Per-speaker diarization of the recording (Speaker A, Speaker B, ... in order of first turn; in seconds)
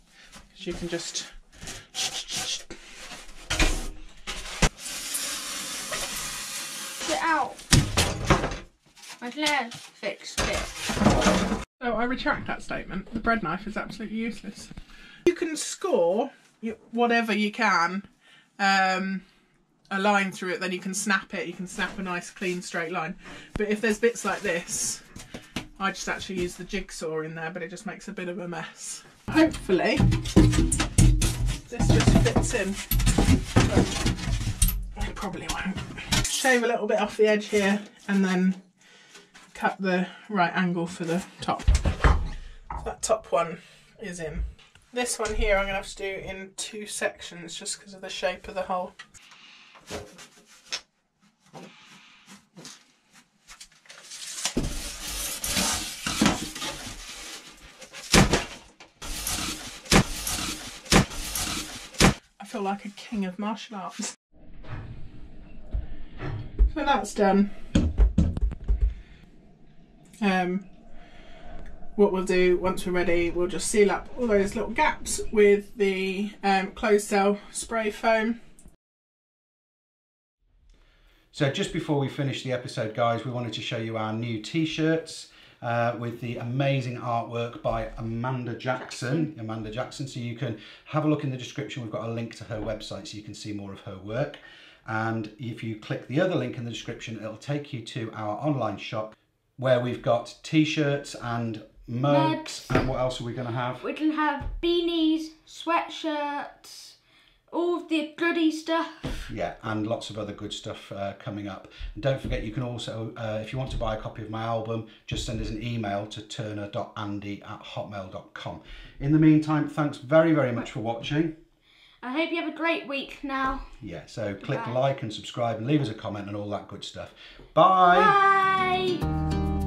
Speaker A: 0.5-1.4, 1.9-2.7, 11.8-14.7, 15.2-18.1, 18.6-19.2, 19.9-25.1, 25.8-30.1, 31.7-32.8, 33.6-34.0, 35.0-38.6, 39.5-41.8, 42.7-48.9, 62.4-64.2, 66.7-67.5, 70.2-70.7, 72.0-78.4
Speaker B: 7.0-7.6, 9.2-10.7, 88.8-89.3, 102.1-102.8, 103.8-107.0, 107.5-109.2, 122.0-123.7, 124.4-124.8, 127.8-129.0
Speaker C: 81.3-103.8, 109.3-121.4, 123.8-128.2